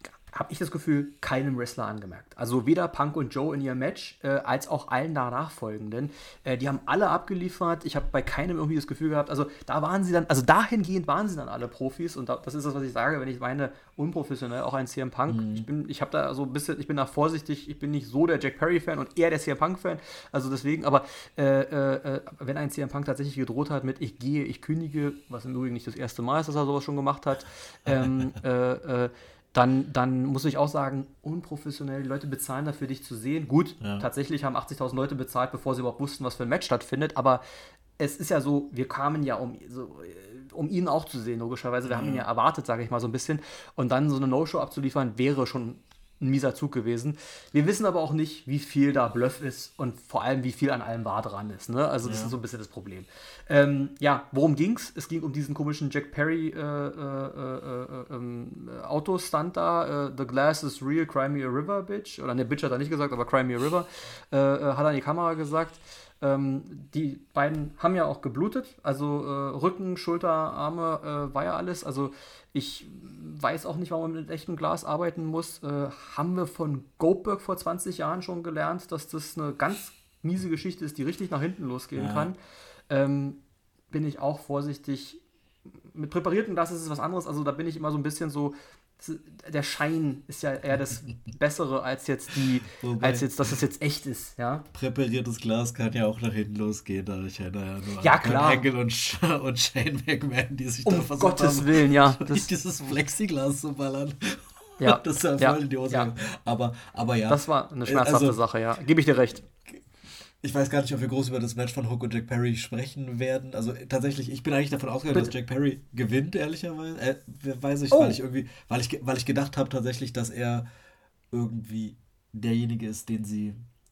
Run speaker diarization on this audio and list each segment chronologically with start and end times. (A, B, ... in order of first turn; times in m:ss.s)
0:00.3-0:37.4 A
0:15.3-0:15.7 B
0:27.8-0:28.3 B
0:33.8-0:34.1 B
0:38.0-1:22.4 A
0:41.8-0:42.2 B
0:52.0-0:52.3 B
1:22.0-1:22.3 B
1:22.9-1:23.4 A
1:23.9-1:25.2 A
1:25.9-1:34.6 A
1:32.7-1:33.3 B
1:34.7-1:48.4 B
1:38.0-1:38.6 A
1:40.8-1:42.5 A
1:44.8-1:46.1 A
1:47.3-1:49.4 A
1:50.4-2:00.6 B
1:57.9-1:58.2 A
2:01.3-2:03.6 B